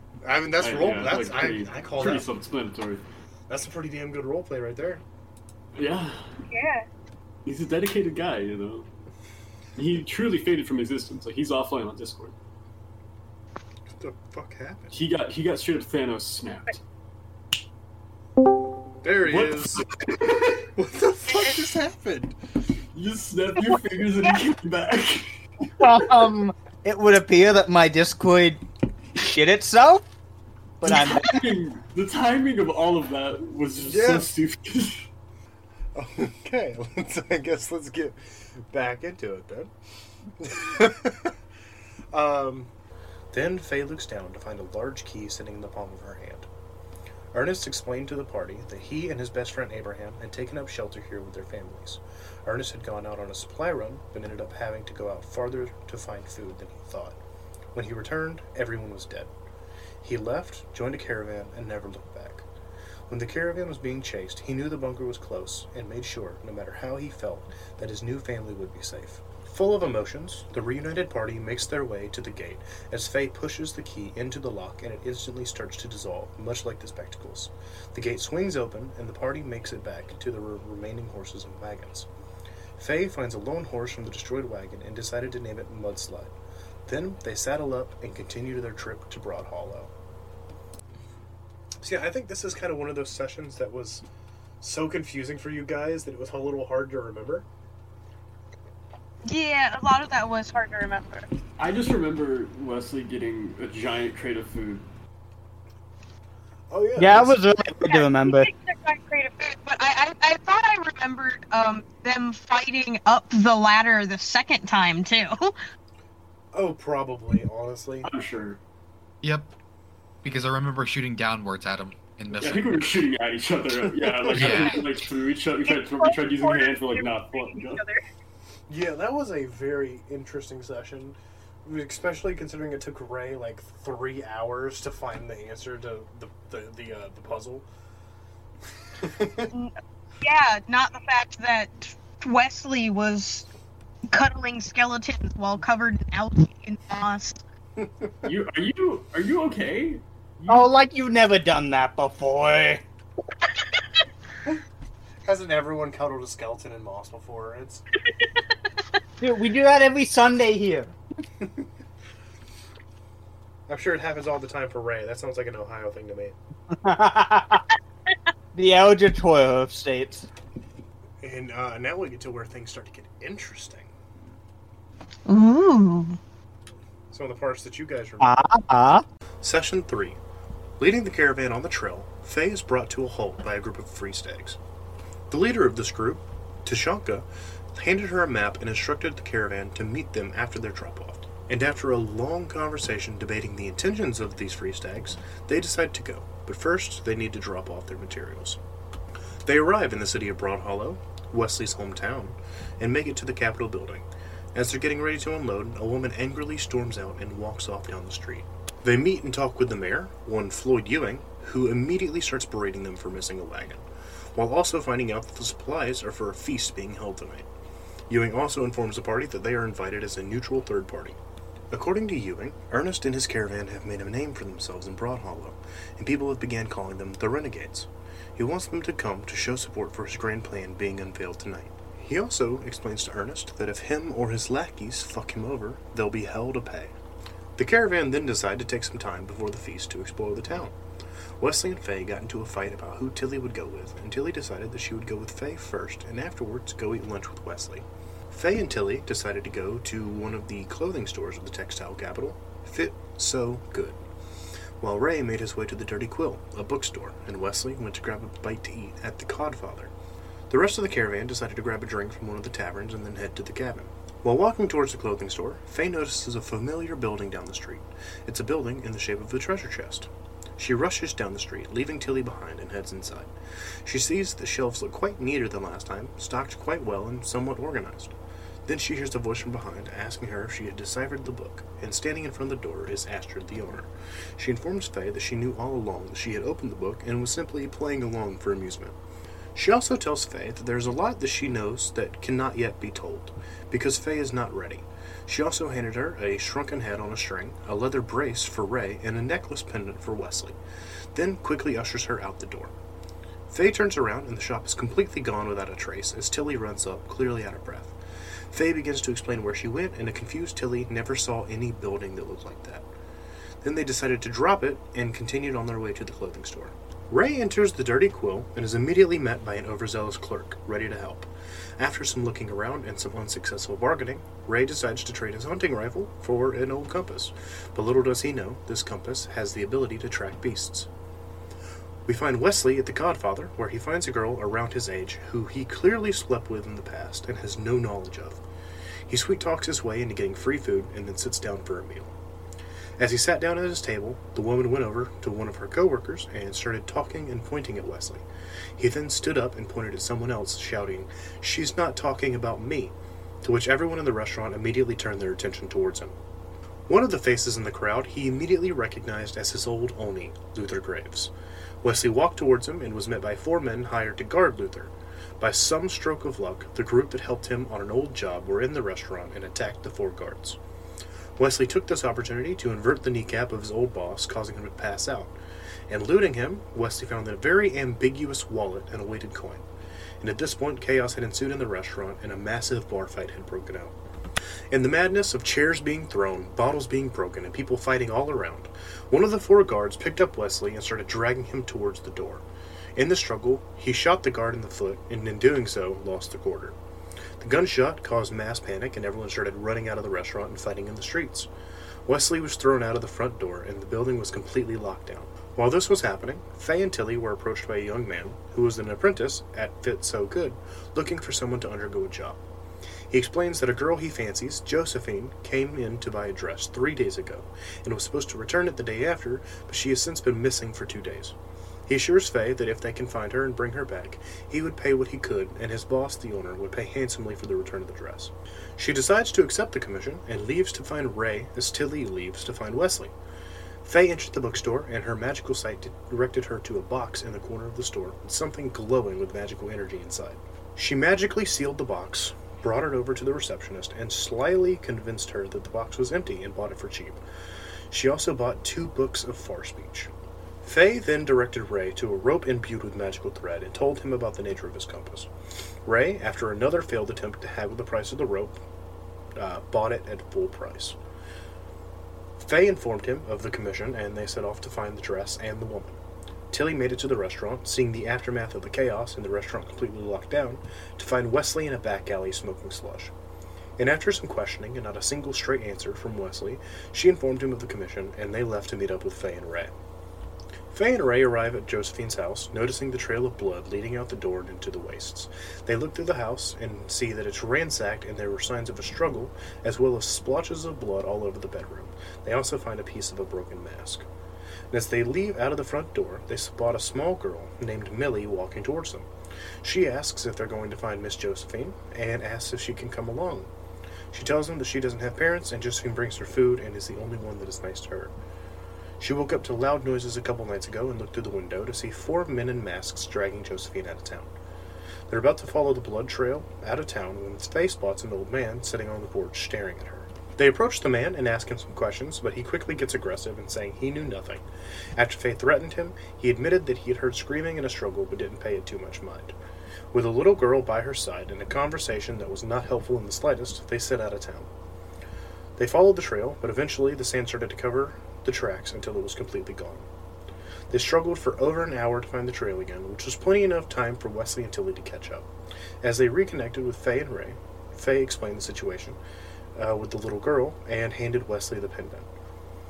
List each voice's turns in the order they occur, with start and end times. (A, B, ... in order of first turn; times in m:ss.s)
0:00.2-0:02.3 A
0:00.6-0:03.0 B
0:03.5-0:05.0 A
0:05.8-0:06.4 B
0:06.5-0:06.9 C
0:07.4-0:08.9 B
0:09.8-0:12.4 B
0:13.9-0:14.9 A
0:14.9-0:16.8 B
0:19.0-0:19.8 A
0:19.3-0:20.7 B
0:20.8-0:22.4 A
0:22.9-0:25.4 B
0:25.8-0:28.6 D
0:29.2-0:30.0 D
0:30.8-0:31.4 D
0:30.8-0:35.1 B
0:33.8-0:34.3 A
0:35.9-0:39.7 A
0:40.4-0:41.3 A
0:42.1-0:42.7 A
0:43.3-0:46.5 A
0:47.3-0:57.2 A
0:57.7-0:59.3 A
1:00.0-1:02.4 A
1:03.1-1:22.1 A
1:22.8-1:26.3 A
1:26.9-1:29.9 A
1:31.8-1:34.0 A
1:34.6-1:37.5 A
1:39.3-1:41.3 C
1:41.6-1:44.8 B
1:46.7-1:47.4 A
1:47.0-1:48.5 D
1:47.8-1:55.6 C
1:56.5-1:58.1 A
1:58.0-1:58.6 B
1:59.2-1:59.5 E
2:00.2-2:02.8 E
2:02.4-2:07.8 B
2:04.2-2:04.8 E
2:05.7-2:08.0 C
2:08.7-2:17.6 A
2:19.0-2:19.5 A
2:19.5-2:23.5 C
2:24.1-2:27.4 C
2:27.8-2:28.3 A
2:28.2-2:30.6 B
2:30.5-2:32.8 D
2:35.3-2:37.8 A
2:39.2-2:40.9 D
2:43.7-2:46.4 A
2:46.7-2:47.7 D
2:48.5-2:50.3 D
2:51.2-2:53.9 A
2:55.3-2:56.2 C
2:57.1-2:58.4 A
2:58.2-2:59.0 D
2:59.4-3:00.2 A
3:00.8-3:04.6 A
3:05.3-3:18.6 A
3:19.4-3:37.5 A
3:38.1-3:41.2 A
3:41.7-3:56.9 A
3:57.6-4:00.8 A
4:01.4-4:14.0 A
4:14.8-4:19.9 A
4:20.5-4:33.3 A
4:33.8-4:38.1 A
4:38.7-4:49.0 A
4:49.6-5:00.6 A
5:01.1-5:02.7 A
5:03.5-5:08.0 A
5:08.5-5:12.9 A
5:13.6-5:30.9 A
5:32.0-5:38.4 A
5:39.1-5:42.1 A
5:43.0-5:48.3 A
5:48.8-5:56.2 A
5:56.9-6:10.6 A
6:11.4-6:15.3 A
6:15.9-6:19.7 A
6:20.2-6:24.0 A
6:24.7-6:32.4 A
6:33.0-6:36.8 A
6:37.4-6:41.5 A
6:42.1-6:52.4 A
6:53.1-7:01.3 A
7:01.9-7:13.1 A
7:13.8-7:27.2 A
7:27.9-7:30.1 A
7:30.6-7:35.3 A
7:35.9-7:38.6 A
7:39.4-7:41.0 A
7:42.4-7:46.0 A
7:46.5-7:53.1 A
7:53.8-7:59.7 A
8:00.7-8:14.1 A
8:14.7-8:19.1 A
8:19.6-8:23.5 A
8:24.1-8:28.1 A
8:29.0-8:34.3 A
8:35.1-8:44.4 A
8:45.0-8:49.4 A
8:49.9-8:54.5 A
8:55.6-8:59.9 A
9:00.7-9:05.3 A
9:05.8-9:09.0 A
9:09.6-9:12.1 A